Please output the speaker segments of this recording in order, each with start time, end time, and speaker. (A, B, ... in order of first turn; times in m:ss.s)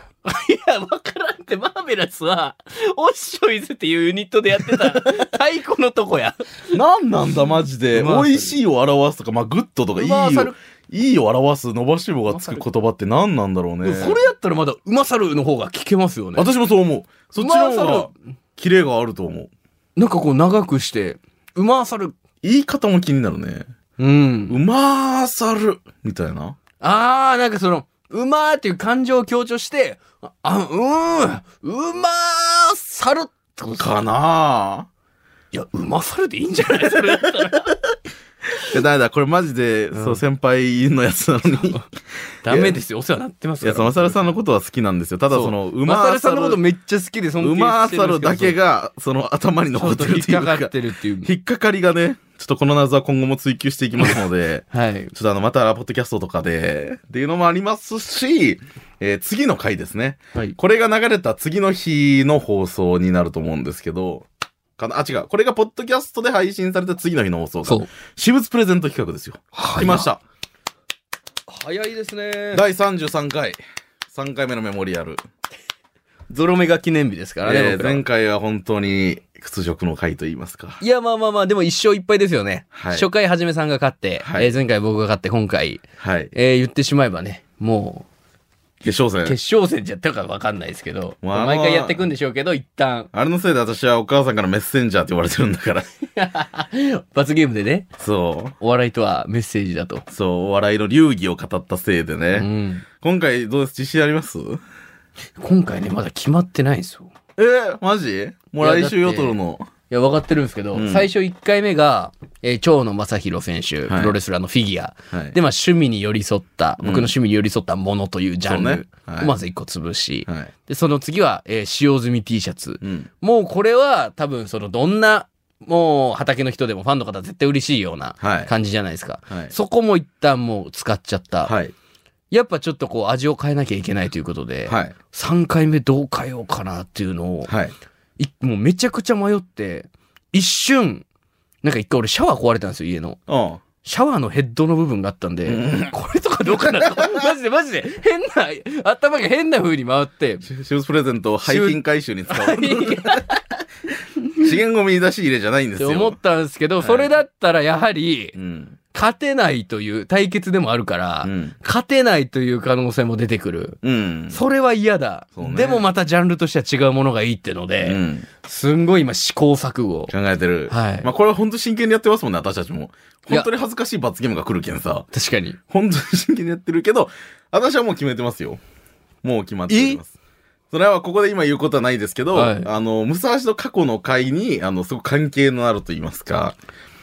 0:00.2-0:06.8 A
0:06.7-0:14.2 B
0:07.5-0:08.6 A
0:10.0-0:10.5 A
0:12.3-0:12.6 A
0:13.8-0:16.5 A
0:16.4-0:19.5 B
0:17.3-0:18.1 A
0:20.0-0:22.1 A
0:22.4-0:23.7 B
0:24.0-0:24.6 A
0:24.5-0:26.6 B
0:26.8-0:34.0 A
0:33.8-0:34.9 B
0:35.5-0:37.8 A
0:38.6-0:41.8 B
0:39.9-0:40.2 A
0:41.4-0:41.8 A
0:42.4-0:44.2 A
0:42.5-0:42.8 B
0:43.6-0:46.6 B
0:45.3-0:48.6 A
0:47.4-0:50.7 B
0:49.7-0:51.3 A
0:51.2-1:04.2 B
0:54.7-0:55.1 A
1:04.8-1:10.2 B
1:09.5-1:10.1 A
1:11.5-1:12.6 A
1:12.5-1:13.6 B
1:14.1-1:15.2 B
1:16.3-1:18.0 A
1:17.4-1:20.8 B
1:20.8-1:25.8 A
1:22.7-1:23.1 B
1:24.2-1:24.5 B
1:26.0-1:26.3 B
1:26.3-1:28.1 A
1:28.8-1:29.4 B
1:29.2-1:33.1 A
1:31.2-1:32.1 B
1:33.1-1:35.9 B
1:36.2-1:37.9 A
1:38.0-1:38.6 B
1:38.6-1:40.0 A
1:40.1-1:42.5 B
1:42.3-1:42.8 A
1:43.0-1:44.6 B
1:45.4-1:47.1 A
1:47.4-1:49.7 B
1:48.6-1:49.4 A
1:49.9-2:11.5 A
1:50.7-1:51.1 B
1:53.9-1:54.2 B
1:56.8-1:57.1 B
1:58.4-1:59.3 B
2:02.8-2:03.1 B
2:08.2-2:08.5 B
2:11.4-2:11.7 B
2:12.3-2:17.5 A
2:14.7-2:14.9 B
2:17.5-2:17.7 B
2:18.2-2:21.0 A
2:21.6-2:23.2 A
2:23.3-2:23.6 B
2:23.8-2:30.4 A
2:25.5-2:25.9 B
2:26.6-2:27.1 B
2:30.4-2:33.2 B
2:31.4-2:33.4 A
2:34.2-2:34.5 A
2:34.4-2:36.2 B
2:35.8-2:38.3 A
2:36.8-2:37.2 B
2:38.3-2:38.8 B
2:38.9-2:43.8 A
2:41.2-2:41.5 B
2:43.8-2:44.4 B
2:44.3-2:50.1 A
2:45.4-2:45.8 B
2:47.8-2:48.3 B
2:50.1-2:55.1 B
2:50.7-2:51.1 A
2:55.1-2:55.6 A
2:55.7-2:58.6 B
2:59.2-3:00.1 B
2:59.7-3:00.0 A
3:00.7-3:06.5 B
3:02.3-3:02.7 A